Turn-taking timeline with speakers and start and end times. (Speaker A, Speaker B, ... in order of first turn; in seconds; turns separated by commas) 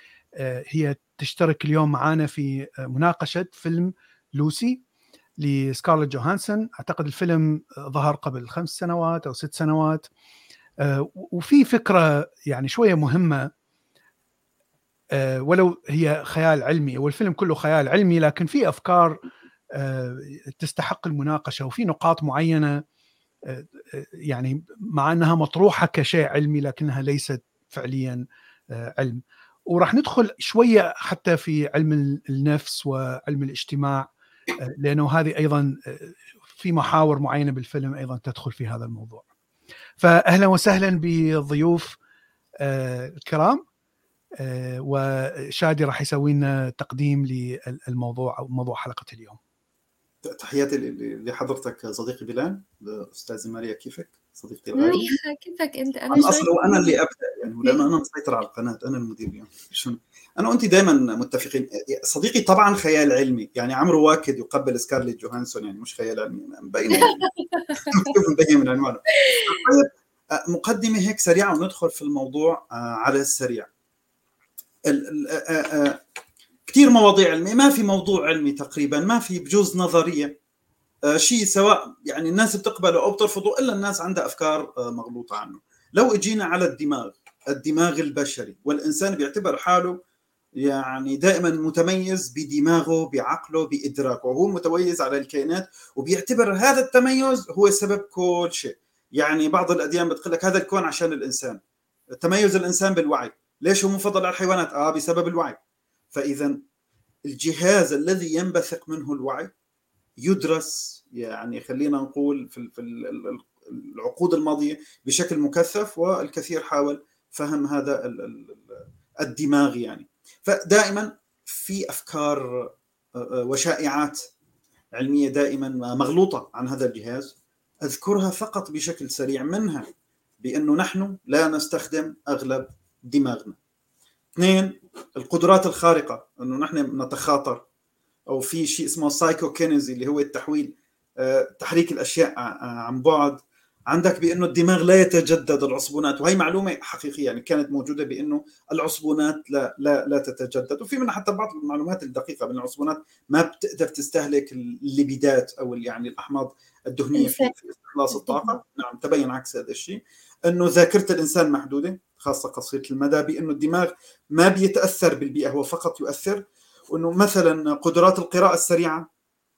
Speaker A: 0.4-4.8, Speaker A: 5.4-10.1, Speaker A: 10.8-13.5, Speaker A: 15.1-19.2, Speaker A: 19.8-22.8, Speaker A: 23.5-28.2, Speaker A: 28.7-34.1, Speaker A: 34.6-39.2, Speaker A: 40.0-42.0, Speaker A: 42.6-43.6, Speaker A: 44.4-49.4, Speaker B: 50.2-55.0, Speaker C: 54.8-57.0, Speaker B: 56.1-67.2, Speaker C: 67.0-68.1, Speaker B: 67.9-73.7, Speaker C: 69.2-69.7, Speaker B: 74.9-76.0, Speaker B: 76.7-80.4, Speaker B: 81.1-90.0, Speaker B: 90.6-101.6, Speaker B: 102.2-105.6, Speaker B: 106.1-106.6, Speaker B: 107.3-109.5, Speaker B: 110.2-124.2, Speaker B: 124.9-129.9, Speaker B: 130.4-133.6, Speaker B: 134.4-137.6, Speaker B: 138.3-169.1, Speaker C: 157.2-157.5, Speaker C: 158.1-158.5